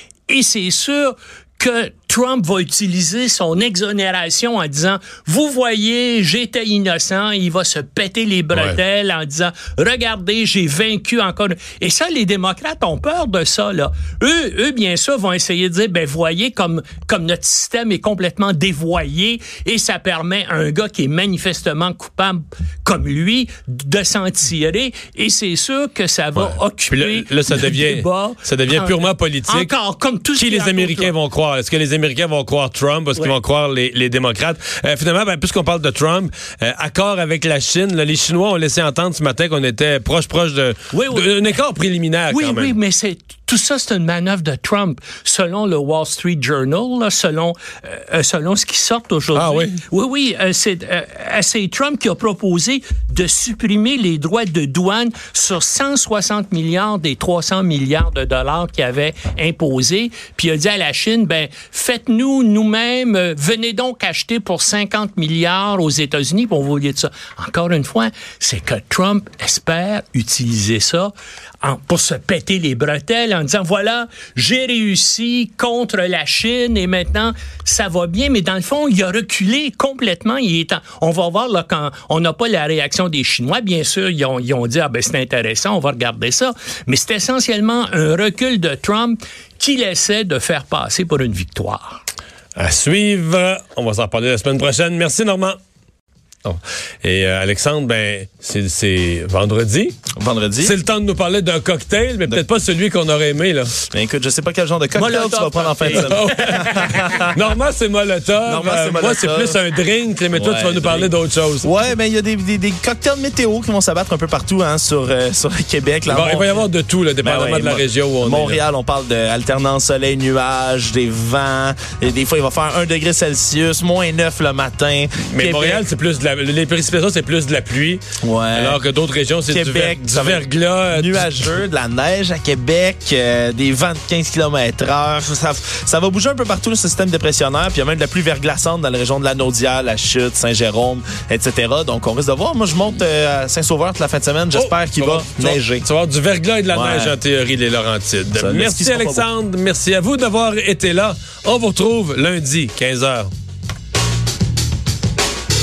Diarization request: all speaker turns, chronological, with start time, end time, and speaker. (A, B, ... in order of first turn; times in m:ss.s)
0:00.3-0:31.1 A
0:26.4-0:29.7 B
0:30.4-0:42.8 B
0:40.9-0:41.6 A
0:42.3-1:32.0 A
0:49.3-0:49.8 B
1:32.6-1:35.6 B
1:36.4-1:40.0 B
1:40.2-1:40.8 C
1:40.6-1:43.8 B
1:43.9-1:47.4 C
1:45.0-1:47.1 A
1:45.9-1:51.7 B
1:48.5-1:49.6 C
1:50.3-1:56.6 C
1:56.1-1:58.6 B
1:57.2-2:05.8 C
2:05.2-2:08.0 B
2:08.2-2:08.8 C
2:08.5-2:11.6 B
2:09.5-2:25.8 C
2:24.5-2:33.3 B
2:26.7-2:27.2 C
2:28.4-2:29.3 C